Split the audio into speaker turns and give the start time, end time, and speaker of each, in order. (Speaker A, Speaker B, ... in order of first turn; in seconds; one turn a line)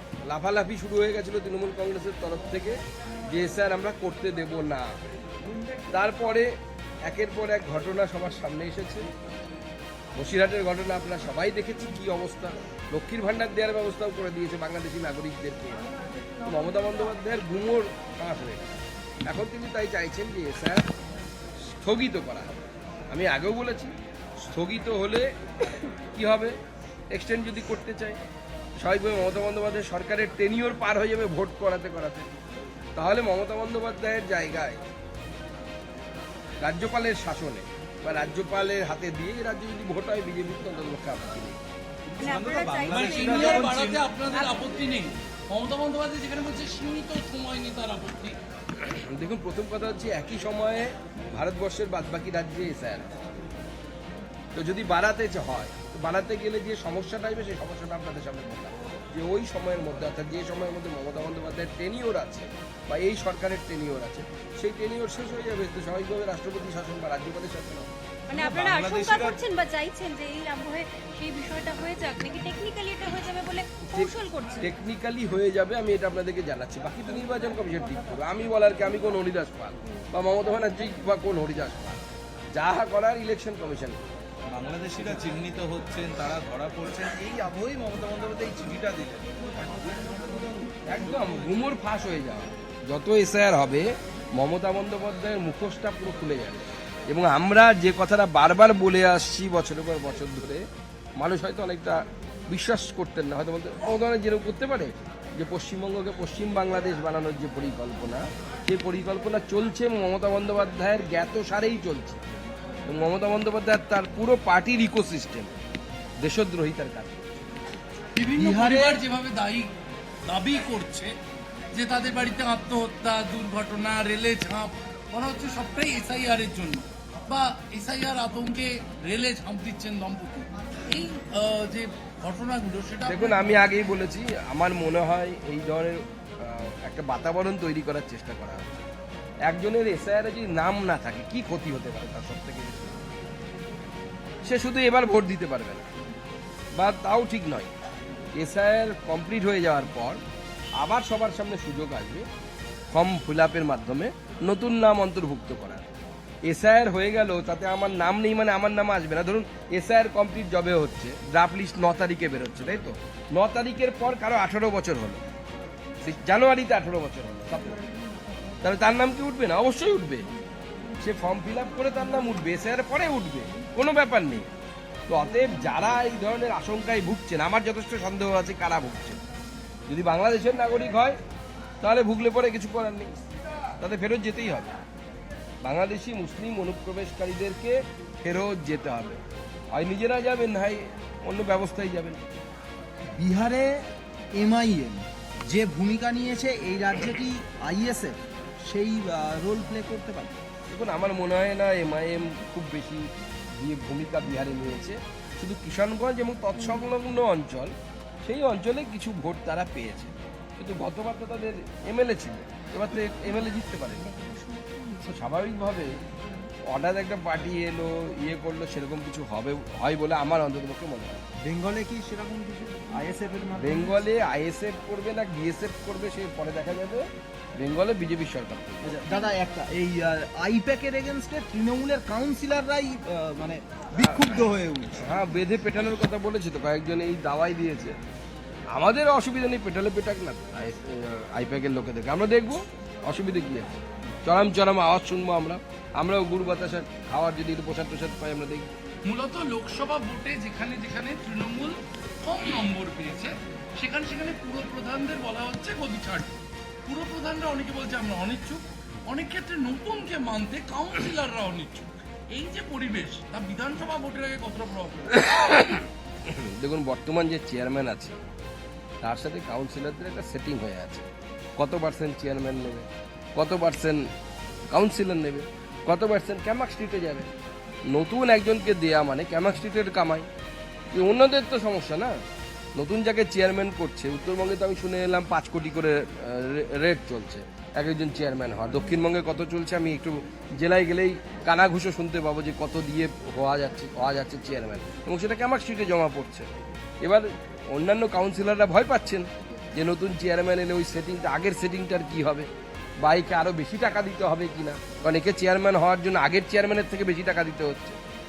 Speaker A: 0.2-5.0
Speaker A: 5.9-6.5
Speaker A: 7.0-9.1
Speaker A: 10.2-15.8
Speaker A: 16.4-20.8
Speaker A: 21.7-22.6
Speaker A: 23.1-26.5
Speaker A: 27.1-28.2
Speaker A: 28.8-32.3
Speaker A: 33.0-34.8
Speaker A: 36.6-41.6
Speaker B: 42.1-44.1
Speaker C: 42.2-44.7
Speaker D: 42.9-48.4
Speaker A: 48.8-53.2
Speaker A: 54.5-67.9
Speaker C: 68.3-74.7
Speaker B: 68.3-69.4
Speaker A: 73.9-84.0
Speaker B: 84.5-91.4
Speaker A: 90.8-100.6
Speaker A: 101.2-112.2
Speaker A: 112.9-115.5
Speaker A: 116.2-117.3
Speaker D: 118.2-119.7
Speaker E: 118.3-119.0
Speaker D: 120.2-121.1
Speaker D: 121.7-133.7
Speaker A: 133.1-138.9
Speaker A: 139.5-143.0
Speaker A: 144.4-145.9
Speaker A: 146.8-147.7
Speaker A: 148.3-150.2
Speaker A: 150.8-152.3
Speaker A: 152.9-155.8
Speaker A: 156.4-165.2
Speaker A: 166.0-167.8
Speaker A: 168.6-170.3
Speaker A: 171.0-174.5
Speaker A: 175.1-179.2
Speaker A: 179.9-181.2
Speaker A: 181.8-183.1
Speaker A: 183.8-184.7
Speaker A: 185.6-189.2
Speaker A: 189.7-192.2
Speaker E: 193.2-200.4
Speaker A: 200.7-214.4
Speaker C: 214.5-214.9
Speaker A: 215.0-215.9
Speaker A: 216.7-221.3
Speaker E: 221.4-224.0
Speaker A: 223.6-227.1
Speaker A: 227.6-229.0
Speaker E: 228.8-235.0
Speaker A: 234.0-234.3
Speaker A: 234.9-237.9
Speaker A: 238.7-248.7
Speaker D: 249.0-265.1
Speaker A: 265.1-268.2
Speaker A: 269.0-274.0
Speaker A: 274.7-277.3
Speaker A: 277.9-280.3
Speaker A: 280.9-282.2
Speaker A: 282.8-302.5
Speaker A: 303.0-308.0